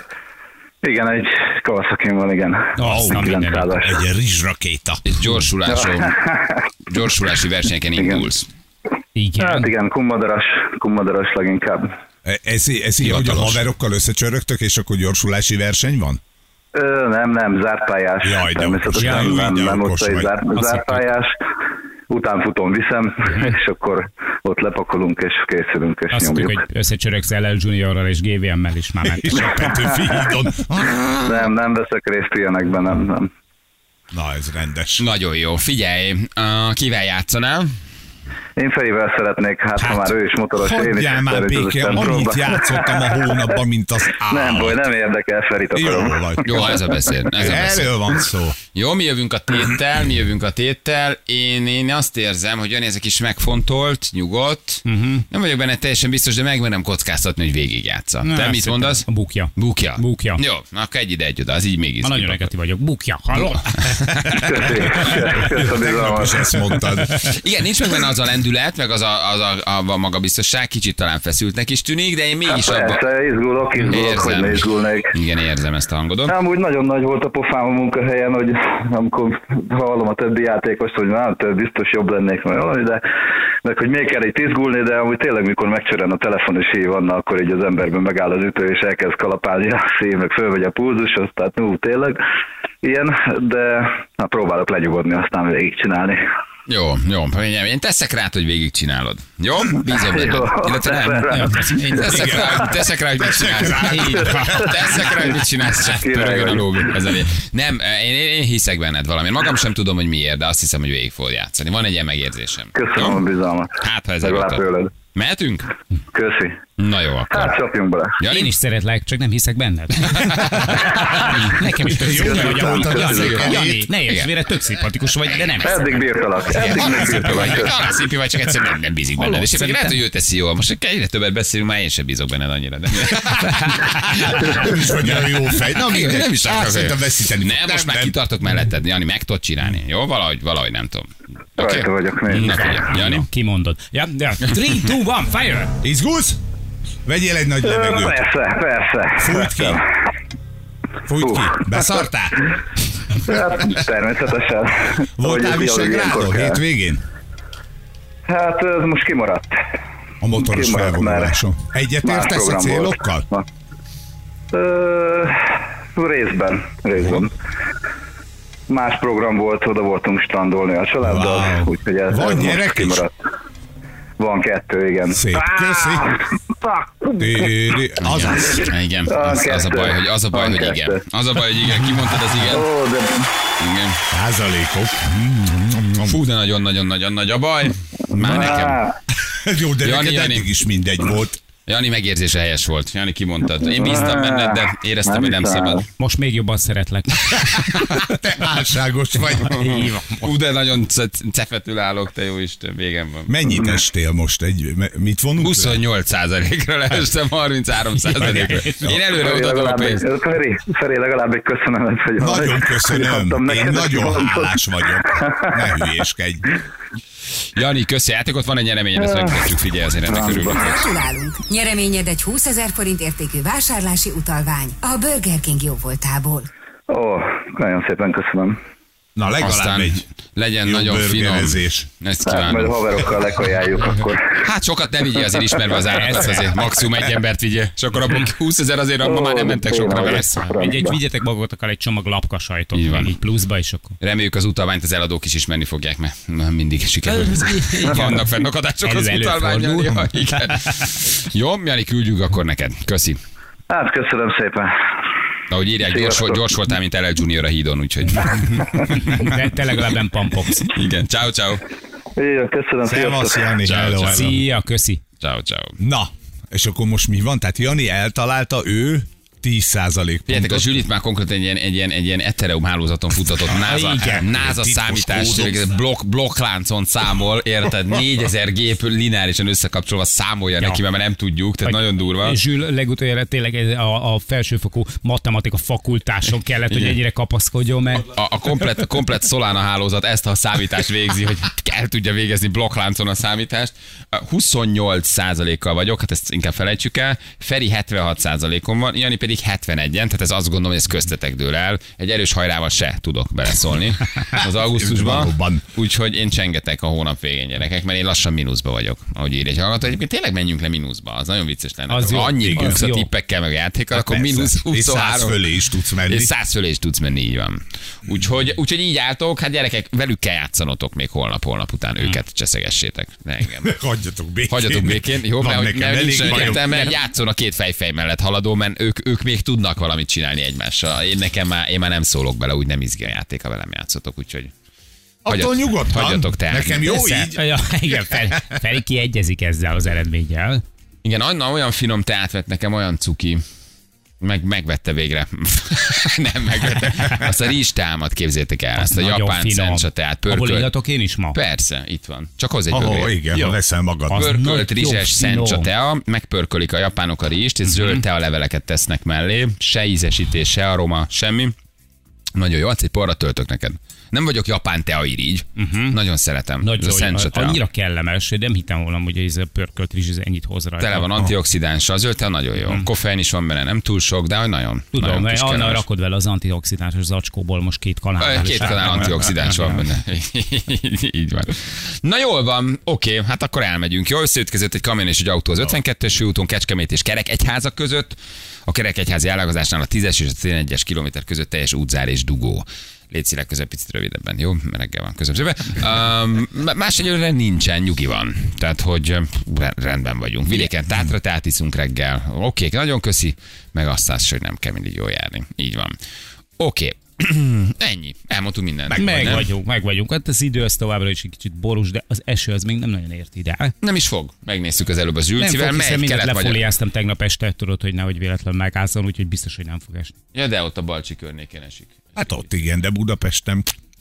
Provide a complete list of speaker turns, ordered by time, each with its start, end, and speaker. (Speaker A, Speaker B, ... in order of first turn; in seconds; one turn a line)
Speaker A: 0.8-4.0
Speaker B: 2.8-3.7
Speaker C: 2.8-5.0
Speaker D: 5.0-6.2
Speaker A: 5.7-6.6
Speaker D: 6.9-8.5
Speaker A: 8.0-8.3
Speaker B: 9.2-9.7
Speaker A: 9.4-11.9
Speaker C: 12.2-16.2
Speaker D: 13.0-13.6
Speaker A: 16.7-21.4
Speaker C: 18.2-20.4
Speaker B: 19.0-19.3
Speaker B: 20.5-21.0
Speaker A: 22.1-26.6
Speaker B: 26.1-29.6
Speaker C: 29.1-31.5
Speaker A: 29.9-30.2
Speaker A: 31.2-33.3
Speaker C: 34.1-35.0
Speaker D: 35.0-37.7
Speaker A: 38.6-43.4
Speaker C: 40.6-44.8
Speaker A: 44.2-46.7
Speaker C: 45.8-46.8
Speaker D: 46.4-48.0
Speaker C: 47.3-48.6
Speaker D: 48.7-62.5
Speaker B: 54.9-55.3
Speaker B: 58.2-60.4
Speaker B: 62.0-63.8
Speaker A: 64.3-66.5
Speaker C: 65.4-67.4
Speaker D: 67.2-73.0
Speaker A: 72.5-75.1
Speaker D: 73.8-76.3
Speaker A: 76.3-83.0
Speaker A: 83.6-92.2
Speaker A: 92.8-96.2
Speaker D: 96.7-113.2
Speaker A: 99.9-101.6
Speaker B: 101.3-102.6
Speaker C: 102.1-104.9
Speaker B: 103.8-104.6
Speaker A: 104.6-105.0
Speaker A: 106.0-107.0
Speaker A: 112.7-114.9
Speaker D: 113.8-115.7
Speaker A: 116.1-116.6
Speaker D: 116.8-117.6
Speaker A: 117.3-118.2
Speaker D: 118.2-118.5
Speaker B: 118.3-125.8
Speaker D: 120.1-121.1
Speaker C: 122.0-123.9
Speaker A: 122.2-123.4
Speaker D: 122.9-124.3
Speaker A: 125.6-127.7
Speaker D: 126.5-143.3
Speaker B: 129.2-130.0
Speaker B: 133.4-134.3
Speaker C: 134.3-138.2
Speaker A: 141.6-142.6
Speaker B: 142.4-145.8
Speaker C: 145.8-146.4
Speaker C: 147.1-148.2
Speaker A: 147.6-149.8
Speaker C: 149.2-149.8
Speaker C: 151.1-152.5
Speaker A: 151.2-151.7
Speaker A: 153.2-156.6
Speaker C: 155.2-157.0
Speaker A: 158.3-159.6
Speaker C: 160.2-163.3
Speaker A: 160.4-161.4
Speaker A: 162.0-163.4
Speaker A: 164.5-167.3
Speaker A: 168.7-173.1
Speaker C: 171.0-173.0
Speaker A: 174.2-177.5
Speaker C: 175.1-176.1
Speaker C: 177.2-178.7
Speaker D: 178.0-182.7
Speaker A: 178.4-181.0
Speaker A: 182.5-183.3
Speaker D: 183.6-184.0
Speaker C: 184.1-186.2
Speaker D: 186.1-188.9
Speaker A: 188.2-188.9
Speaker C: 189.2-191.4
Speaker D: 189.8-190.5
Speaker D: 191.7-195.8
Speaker A: 193.8-195.8
Speaker B: 196.0-197.5
Speaker D: 197.4-197.8
Speaker C: 197.7-200.0
Speaker D: 199.3-203.3
Speaker B: 199.6-200.2
Speaker C: 203.3-205.8
Speaker D: 205.4-210.1
Speaker B: 208.1-209.0
Speaker A: 209.1-215.6
Speaker C: 212.2-216.4
Speaker D: 217.6-220.8
Speaker A: 219.0-219.3
Speaker A: 220.1-220.6
Speaker E: 220.5-226.5
Speaker A: 226.9-228.6
Speaker C: 229.2-230.0
Speaker D: 229.4-233.2
Speaker C: 230.6-231.9
Speaker A: 232.3-234.4
Speaker D: 234.3-240.3
Speaker B: 235.8-236.5
Speaker A: 239.0-241.0
Speaker B: 240.0-244.0
Speaker D: 242.7-243.1
Speaker D: 244.0-253.2
Speaker B: 247.1-250.8
Speaker A: 253.7-254.8
Speaker D: 255.5-259.4
Speaker A: 255.8-256.5
Speaker B: 258.3-260.7
Speaker D: 260.6-261.6
Speaker A: 262.2-263.5
Speaker C: 262.8-264.4
Speaker D: 263.6-264.4
Speaker B: 264.1-265.0
Speaker D: 265.2-265.8
Speaker C: 265.8-270.8
Speaker D: 270.3-282.4
Speaker B: 273.6-274.2
Speaker C: 274.0-275.7
Speaker B: 281.6-288.1
Speaker D: 286.7-287.0
Speaker D: 288.1-315.4
Speaker C: 304.7-305.6
Speaker B: 311.9-313.1
Speaker C: 312.4-312.8
Speaker C: 313.9-316.3
Speaker D: 316.1-323.7
Speaker C: 323.6-326.7
Speaker D: 324.5-334.5
Speaker B: 326.3-326.9
Speaker C: 335.2-337.4
Speaker D: 335.3-336.9
Speaker B: 336.9-340.6
Speaker D: 341.0-343.4
Speaker D: 344.2-350.7
Speaker B: 348.8-351.4
Speaker D: 351.3-353.1
Speaker C: 352.7-354.3
Speaker B: 354.1-355.7
Speaker D: 354.1-361.5
Speaker B: 357.7-358.0
Speaker D: 362.4-367.6
Speaker B: 365.6-366.0
Speaker B: 366.6-371.1
Speaker D: 370.8-375.8
Speaker B: 372.6-372.9
Speaker B: 374.9-379.8
Speaker D: 378.2-406.0
Speaker D: 406.6-409.4
Speaker C: 408.9-409.4
Speaker B: 408.9-413.7
Speaker D: 413.8-416.6
Speaker B: 415.4-420.1
Speaker D: 420.3-422.4
Speaker C: 422.2-423.7